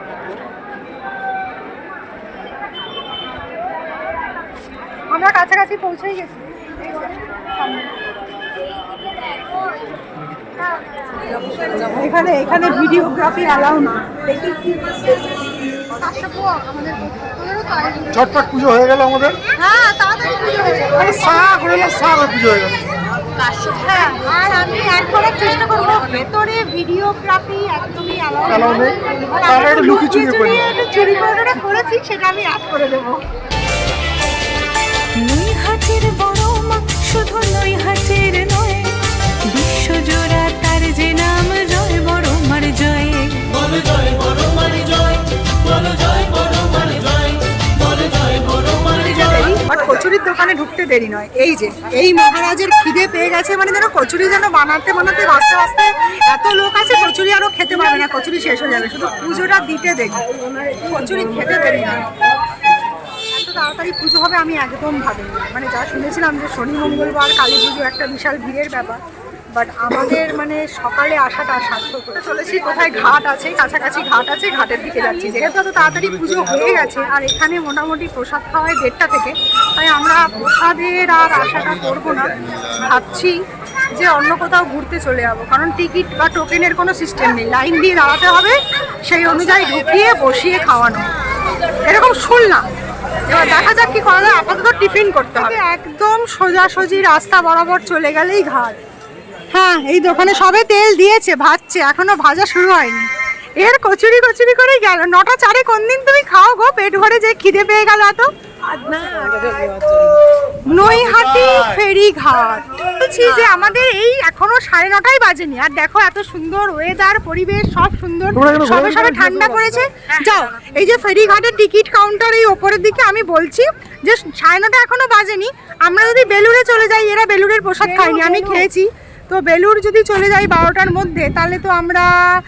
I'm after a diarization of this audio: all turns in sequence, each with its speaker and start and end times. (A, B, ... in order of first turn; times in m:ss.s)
0:05.1-0:06.7 A
0:07.6-0:07.9 A
0:11.5-0:11.9 B
0:11.9-0:14.6 A
0:16.0-0:18.2 A
0:18.1-0:19.4 C
0:19.6-0:21.6 A
0:21.0-0:22.8 C
0:23.4-0:24.2 B
0:23.7-0:33.2 A
0:28.5-0:30.6 C
0:35.2-0:39.0 B
0:39.5-0:45.2 B
0:45.8-0:47.3 B
0:48.8-1:00.2 A
1:00.9-1:02.1 A
1:03.4-1:09.0 A
1:09.5-1:23.4 A
1:23.9-1:31.1 A
1:31.8-1:32.6 A
1:33.3-1:38.8 A
1:39.5-1:48.3 A
1:48.6-1:50.2 B
1:50.6-2:12.1 A
1:58.3-1:59.9 C
2:07.8-2:08.6 B